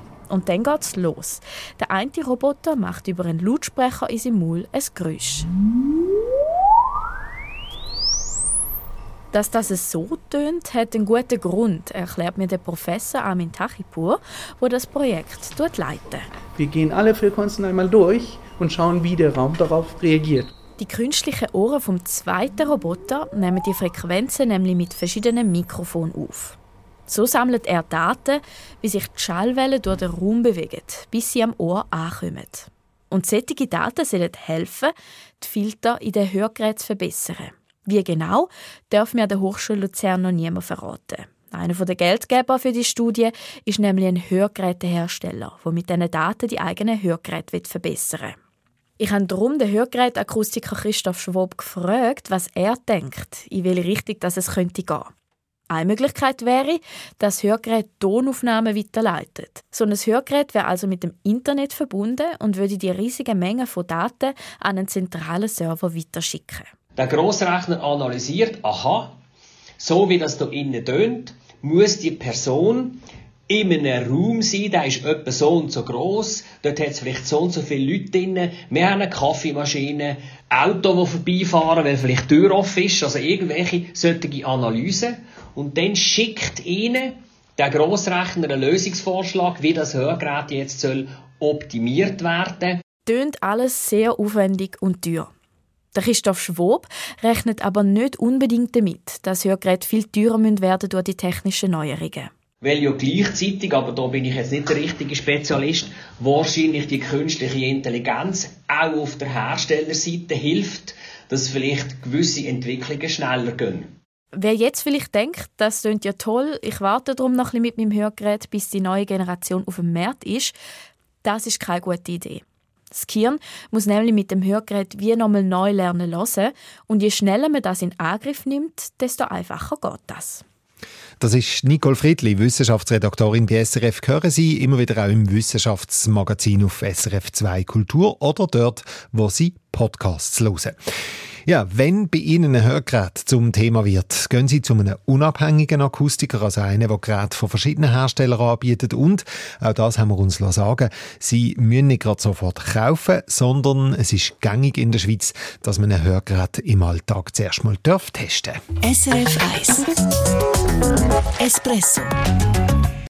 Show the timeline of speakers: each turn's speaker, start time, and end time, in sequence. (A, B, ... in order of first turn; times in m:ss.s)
0:00.3-0:05.5 A
0:09.3-0:16.3 A
0:16.6-0:20.5 B
0:20.8-0:48.4 A
0:49.0-0:55.1 A
0:55.7-1:06.7 A
1:07.0-1:09.1 C
1:09.8-1:32.8 C
1:33.1-1:35.3 A
1:35.9-1:42.3 A
1:42.6-1:53.9 C
1:54.3-2:00.6 A
2:01.2-2:10.4 A
2:11.2-2:20.8 D
2:21.5-2:38.6 D
2:38.8-2:40.0 E
2:41.4-2:42.1 E